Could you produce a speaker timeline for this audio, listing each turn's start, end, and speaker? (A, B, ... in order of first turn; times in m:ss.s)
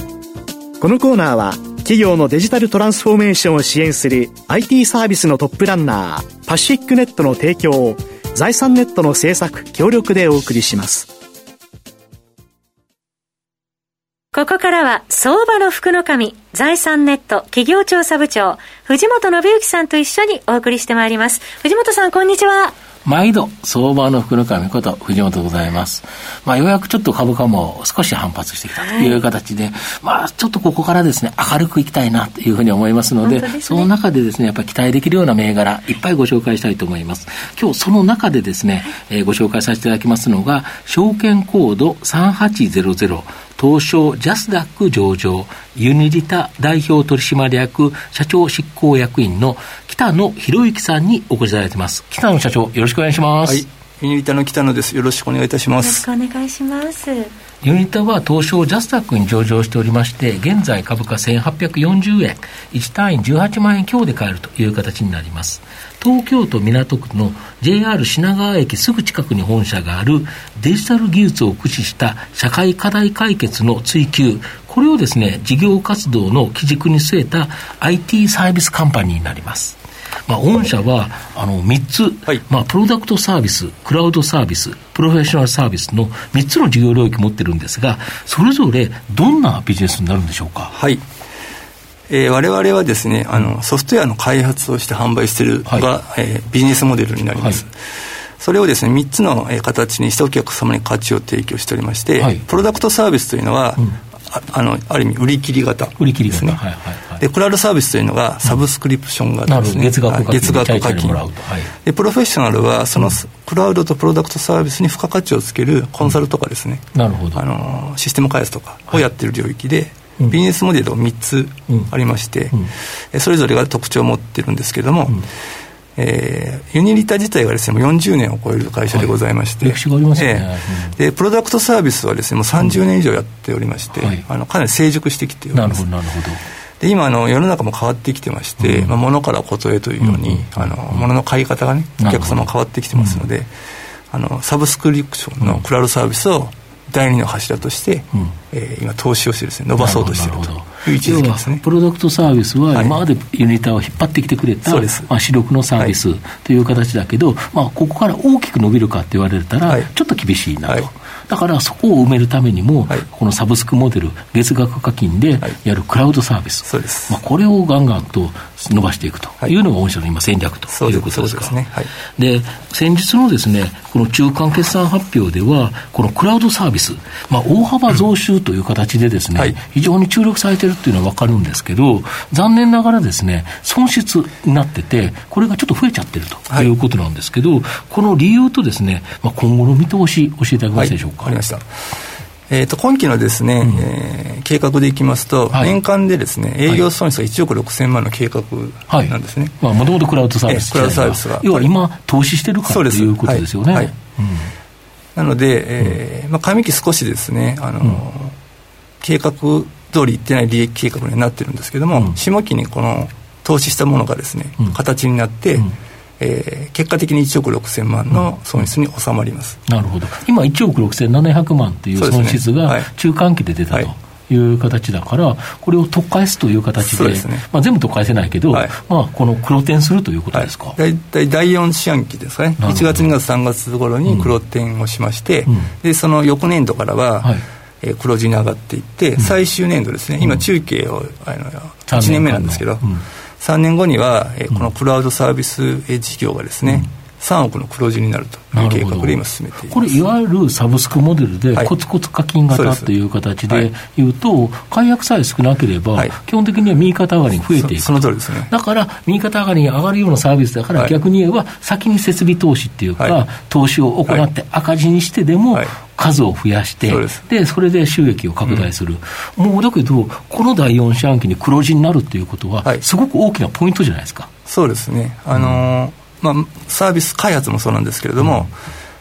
0:00.8-0:11.1 A
0:14.3-0:22.7 B
0:23.0-0:53.6 C
0:28.8-0:29.2 B
0:33.2-0:33.9 B
0:53.4-0:56.0 D
0:55.8-0:57.3 B
0:57.6-1:30.7 C
1:30.7-1:31.0 D
1:32.1-1:37.7 D
1:38.4-1:46.6 D
1:42.2-1:42.4 C
1:46.0-1:47.2 C
1:47.2-1:51.2 D
1:49.5-1:51.7 C
1:51.8-2:05.2 D
1:56.9-1:57.4 C
2:06.0-2:15.9 D
2:08.9-2:11.0 C
2:13.9-2:14.2 C
2:15.5-2:16.4 C
2:16.8-2:23.5 D
2:18.6-2:19.0 C
2:20.0-2:21.1 C
2:22.0-2:23.2 C
2:24.1-2:31.6 D
2:29.8-2:51.6 C
2:34.6-2:35.1 D
2:46.6-2:47.2 D
2:50.7-2:51.9 D
2:52.2-3:11.4 C
3:10.7-3:11.6 D
3:12.5-3:19.6 D
3:15.5-3:15.8 C
3:18.9-3:24.5 C
3:20.4-3:21.7 D
3:22.6-3:23.9 D
3:25.2-3:28.3 D
3:29.0-3:35.7 D
3:36.2-3:39.6 D
3:39.7-3:50.8 C
3:42.0-3:42.9 D
3:46.8-3:47.4 D
3:50.3-4:02.8 D
3:52.6-3:53.1 C
3:54.0-3:54.3 C
4:01.9-4:03.0 C
4:03.4-4:10.0 D
4:08.5-4:34.3 C
4:12.5-4:12.9 D
4:17.5-4:18.5 D
4:26.8-4:27.2 D
4:34.4-4:38.5 D
4:35.3-4:35.6 C
4:38.2-4:38.4 C